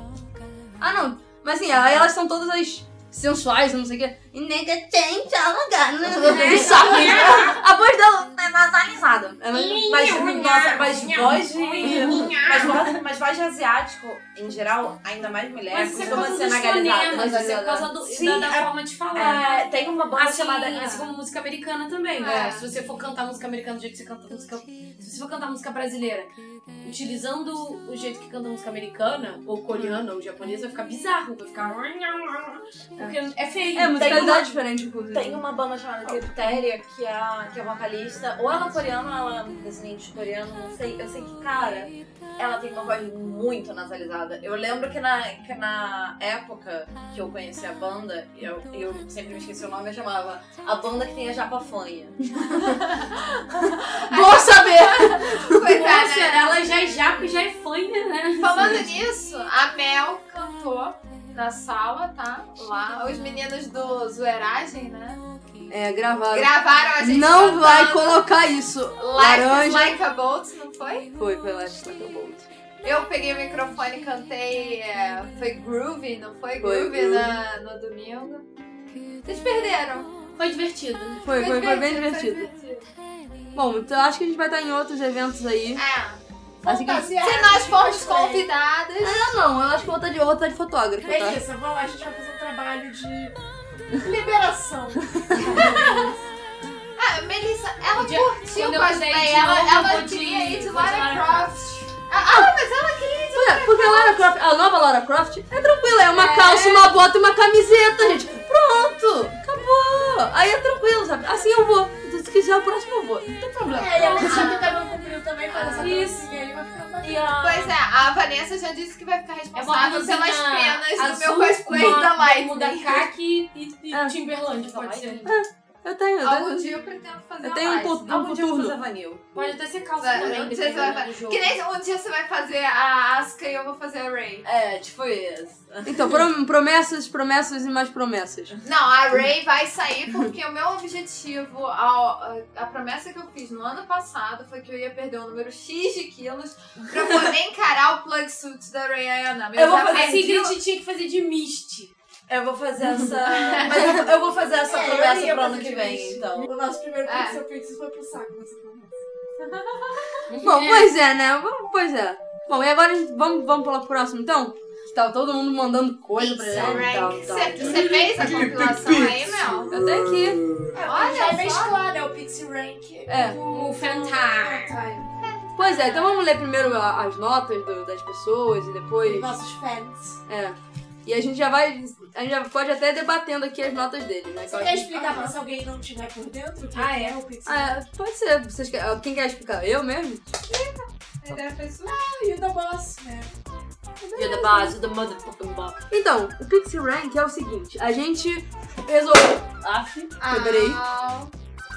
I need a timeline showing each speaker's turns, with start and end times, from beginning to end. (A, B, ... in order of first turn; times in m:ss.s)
0:00.8-0:09.9 A
0:06.1-0:07.6 B
0:06.4-0:06.8 C
0:09.5-0:12.9 B
0:09.9-0:21.0 C
0:11.8-0:12.3 A
0:15.7-0:26.3 B
0:16.0-0:16.5 A
0:17.1-0:17.9 A
0:22.2-0:22.7 D
0:26.8-0:34.5 B
0:33.8-0:35.4 A
0:34.0-0:34.6 C
0:35.1-0:52.3 C
0:52.5-0:56.6 D
0:54.0-0:55.6 A
0:55.5-0:58.8 B
0:58.4-1:05.2 D
0:58.6-0:58.9 A
1:05.7-1:10.0 A
1:06.3-1:08.2 D
1:09.0-1:11.1 D
1:11.2-1:12.5 A
1:12.8-1:18.4 D
1:16.6-1:17.4 A
1:19.2-1:20.1 D
1:20.4-1:21.3 B
1:21.2-1:22.5 A
1:21.3-1:22.9 D
1:23.6-1:25.8 A
1:25.8-1:26.2 D
1:26.6-1:28.5 E
1:26.7-1:27.1 A
1:27.2-1:29.3 D
1:29.0-1:31.4 A
1:31.0-1:33.4 E
1:33.9-1:36.2 E
1:35.3-1:35.7 A
1:35.4-1:36.1 D
1:37.0-1:44.3 D
1:38.0-1:41.5 B
1:43.3-1:54.5 A
1:46.1-1:46.9 D
1:53.7-1:57.4 E
1:54.0-1:54.7 B
1:54.2-1:54.8 D
1:55.5-1:56.3 B
1:55.6-1:55.9 D
1:57.0-1:57.7 C
1:57.3-2:03.1 D
1:59.6-2:05.3 B
2:04.6-2:05.3 C
2:05.3-2:06.7 A
2:06.2-2:08.2 D
2:07.4-2:08.8 A
2:08.1-2:09.3 C
2:09.4-2:11.5 B
2:10.0-2:14.5 D
2:14.4-2:16.3 C
2:15.8-2:18.6 A
2:18.6-2:30.5 D
2:29.5-2:30.5 C
2:29.9-2:31.9 B
2:32.3-2:36.5 C
2:33.2-2:34.0 D
2:34.6-2:39.0 E
2:37.0-2:37.4 D
2:39.4-2:40.2 D
2:40.3-2:40.9 B
2:40.4-2:48.0 A
2:46.2-2:49.8 D
2:47.2-2:50.7 C
2:49.7-2:50.4 A
2:50.7-2:55.1 E
2:50.8-2:51.8 D
2:53.1-2:53.4 A
2:53.5-2:54.8 B
2:55.2-2:56.2 D
2:55.6-2:59.3 A
2:59.0-3:00.2 E
3:00.3-3:05.3 A
3:04.5-3:07.8 E
3:06.8-3:07.2 D
3:07.5-3:10.3 A
3:10.5-3:11.9 D
3:11.9-3:13.4 E
3:14.0-3:14.8 E
3:14.2-3:15.8 C
3:15.9-3:20.8 A
3:20.2-3:21.3 D